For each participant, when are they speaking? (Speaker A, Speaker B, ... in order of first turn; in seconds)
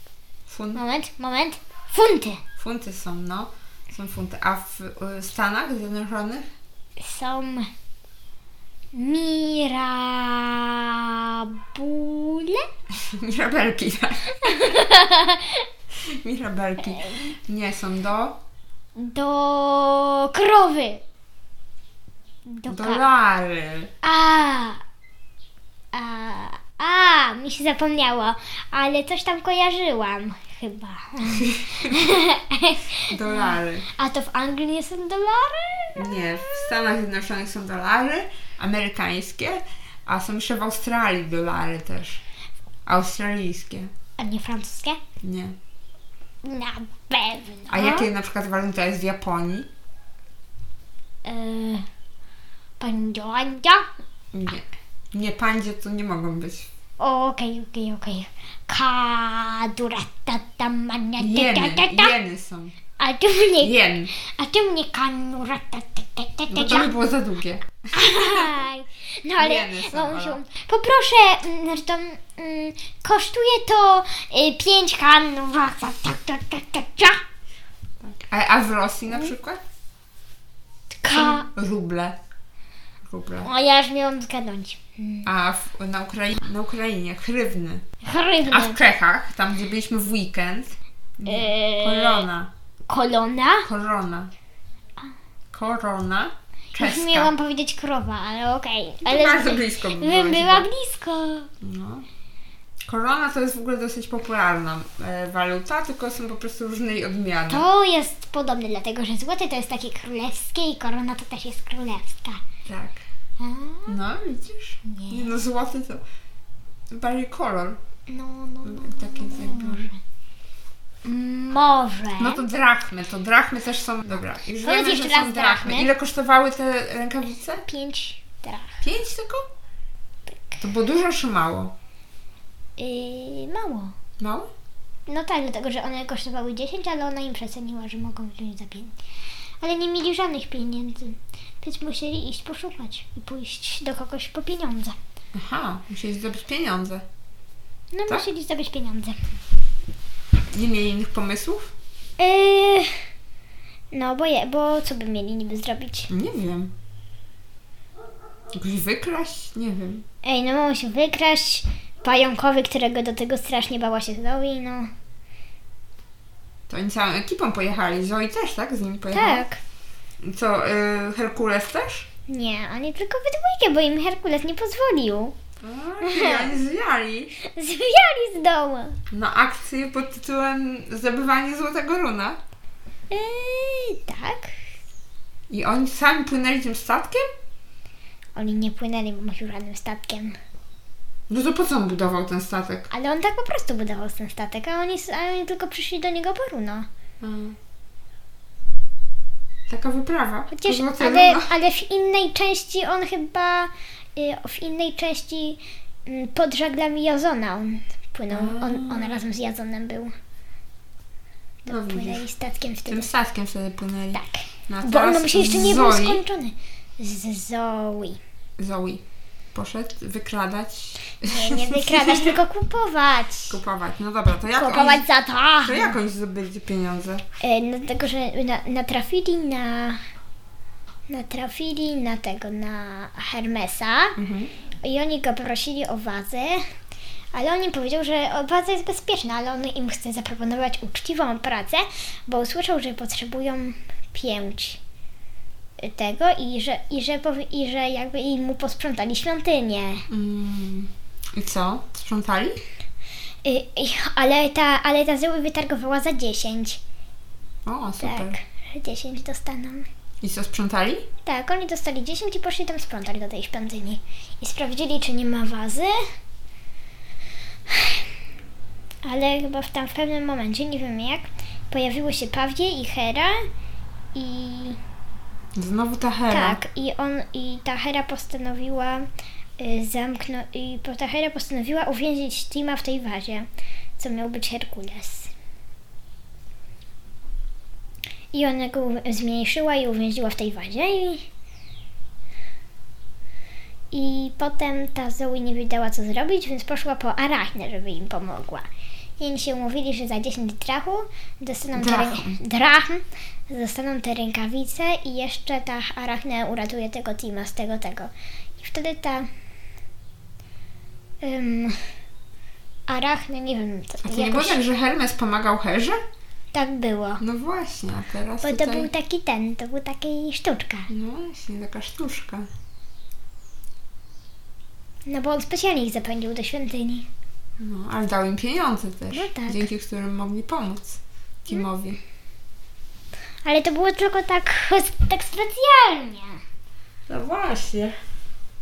Speaker A: 0.5-0.8, 2.6-6.5, 12.9-14.8, 16.0-18.4, 22.7-23.9, 31.3-32.0, 33.1-33.9, 36.0-42.2, 42.9-43.9, 45.2-45.6, 47.7-49.7, 54.3-56.7, 61.2-62.8, 63.6-64.1, 66.5-68.6, 69.4-70.4, 78.0-79.6, 81.1-82.2, 83.0-83.5, 85.2-87.8, 88.5-92.5, 93.7-94.3, 95.5-97.3, 99.0-100.7, 101.6-102.1, 102.9-107.7, 112.7-113.0, 113.9-116.0, 116.9-117.8, 118.6-119.9, 122.2-127.6, 128.8-129.4, 130.6-131.7, 134.2-134.5, 145.3-147.1, 150.5-151.7, 156.1-156.7, 158.5-160.0, 166.7-169.5, 170.2-172.1, 175.6-177.3, 179.1-182.4, 185.5-187.3, 191.3-192.9, 197.2-197.6, 199.7-201.5, 208.3-209.2, 211.7-212.2, 212.9-216.2, 218.6-219.0, 219.5-222.4, 223.5-225.1, 225.6-227.2, 234.2-234.5, 250.1-252.6, 257.7-258.4, 260.2-261.1, 275.6-276.6, 301.7-302.4, 314.0-316.0, 317.2-318.9, 320.9-322.5, 327.6-332.0, 337.1-338.0
Speaker B: 0.8-2.4, 7.0-7.7, 8.9-12.7, 14.4-15.7, 16.9-17.3, 19.0-21.0, 22.5-23.0, 24.0-24.8, 25.9-36.7, 44.2-45.0, 46.4-48.1, 51.2-51.9, 52.8-53.9, 57.0-62.2, 63.0-66.9, 67.9-77.2, 80.9-81.5, 83.4-85.3, 88.0-88.8, 91.3-92.3, 92.9-93.7, 96.8-101.5, 107.5-112.4, 113.4-114.0, 114.8-115.4, 118.1-120.0, 121.0-122.5, 124.6-125.9, 127.7-128.8, 130.4-130.6, 132.8-133.9, 135.1-138.9, 139.6-145.0, 147.9-149.2, 152.2-153.0, 153.9-156.1, 160.2-164.9, 169.1-169.6, 172.3-175.4, 176.0-176.5, 177.4-179.0, 183.1-184.6, 188.4-190.4, 192.9-196.9, 200.5-210.1, 211.7-213.1, 214.1-218.2, 221.2-223.6, 224.5-226.0, 227.4-230.0, 231.1-234.2, 234.8-236.7, 237.3-244.8, 245.8-250.1, 253.4-256.8, 258.0-259.9, 261.2-266.0, 267.7-268.1, 269.0-273.5, 274.1-274.8, 276.3-279.1, 279.6-283.5, 284.0-285.3, 288.3-291.3, 293.9-298.7, 299.2-309.3, 311.2-311.9, 312.9-314.6, 316.5-317.2, 318.4-320.9, 325.1-327.1, 329.1-329.7, 333.4-336.4